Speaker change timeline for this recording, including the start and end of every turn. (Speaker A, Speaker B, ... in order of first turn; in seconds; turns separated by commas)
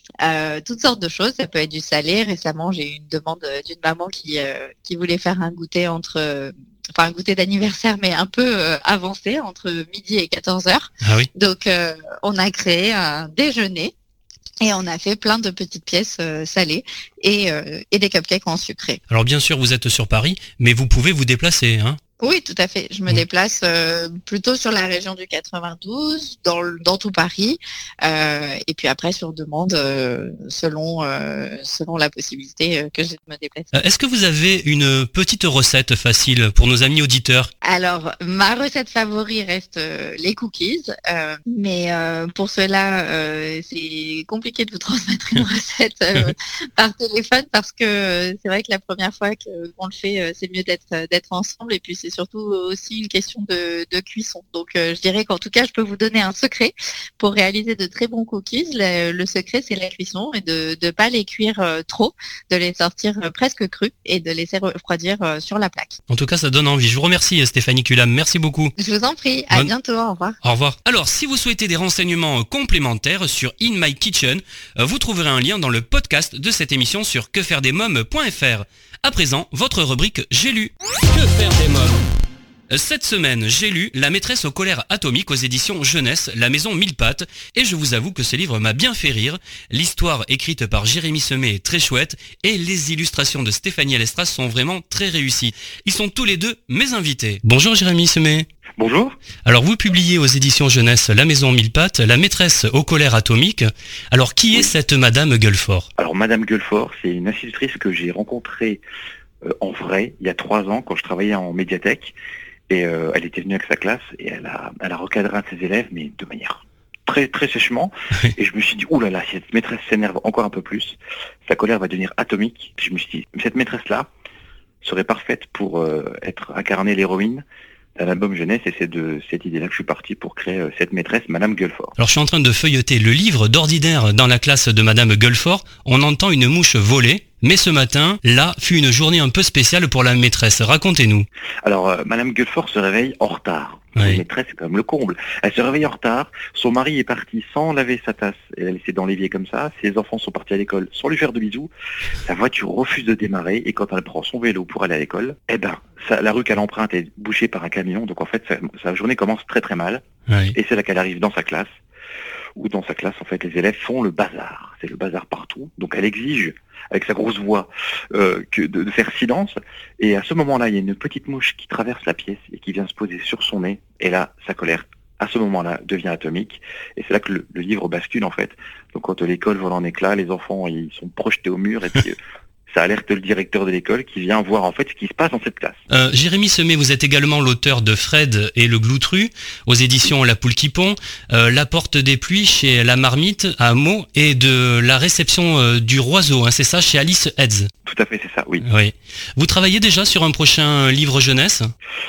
Speaker A: 0.2-13.9, Speaker B: 11.0-11.3, Speaker A: 14.6-19.0, Speaker B: 19.1-22.0, Speaker A: 22.2-33.7, Speaker B: 33.7-37.5, Speaker A: 37.6-66.0, Speaker B: 66.1-68.7, Speaker A: 68.8-70.4, Speaker B: 70.4-82.0, Speaker B: 82.7-98.5, Speaker C: 98.8-99.2, Speaker B: 99.5-105.9, Speaker C: 106.0-108.8, Speaker C: 109.5-112.1, Speaker C: 112.7-124.1, Speaker C: 124.8-127.4, Speaker C: 128.0-131.9, Speaker B: 132.0-141.3, Speaker C: 141.6-151.7, Speaker B: 144.0-144.2, Speaker C: 152.2-161.7, Speaker B: 160.3-160.6, Speaker C: 162.6-182.2, Speaker C: 182.7-185.8, Speaker B: 185.9-197.7, Speaker C: 197.8-198.6, Speaker B: 198.7-201.7